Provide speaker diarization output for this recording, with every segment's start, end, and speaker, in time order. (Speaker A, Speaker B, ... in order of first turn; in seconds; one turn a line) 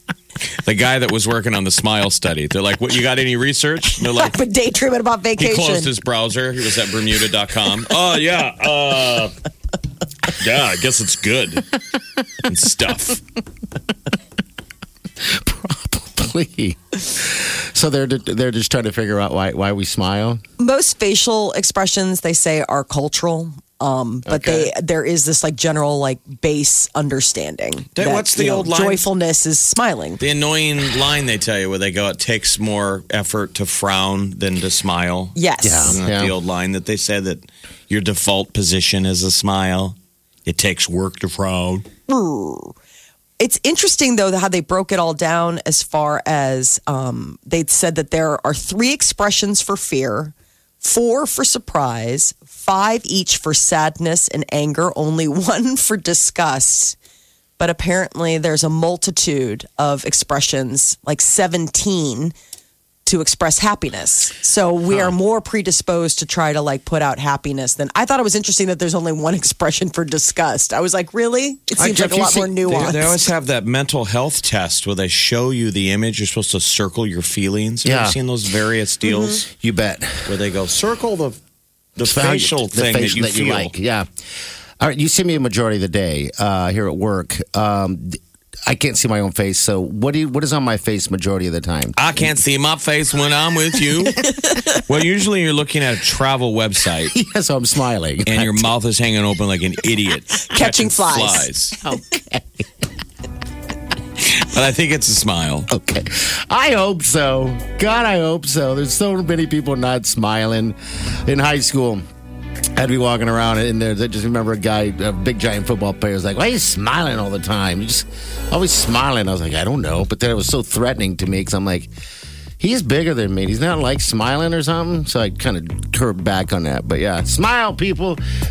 Speaker A: 0.6-4.4
Speaker B: 4.0-5.9
Speaker A: 5.4-9.3
Speaker A: 10.3-11.7
Speaker A: 12.4-13.2
Speaker C: 15.2-20.4
Speaker B: 20.6-30.2
Speaker C: 24.2-24.7
Speaker A: 27.9-29.1
Speaker A: 30.2-39.9
Speaker B: 35.4-36.0
Speaker C: 35.6-36.3
Speaker A: 40.5-41.9
Speaker B: 42.1-42.7
Speaker B: 43.4-57.0
Speaker B: 57.6-62.3
Speaker B: 63.0-73.3
Speaker C: 71.8-73.0
Speaker A: 72.7-79.5
Speaker C: 77.8-78.2
Speaker C: 79.4-80.3
Speaker A: 80.2-81.4
Speaker A: 82.0-83.7
Speaker C: 82.0-84.1
Speaker C: 84.8-92.0
Speaker A: 92.0-97.1
Speaker C: 97.1-98.7
Speaker A: 98.2-101.8
Speaker B: 100.5-101.5
Speaker C: 101.8-102.6
Speaker A: 104.2-105.7
Speaker C: 105.7-112.0
Speaker C: 112.8-121.9
Speaker C: 122.6-128.2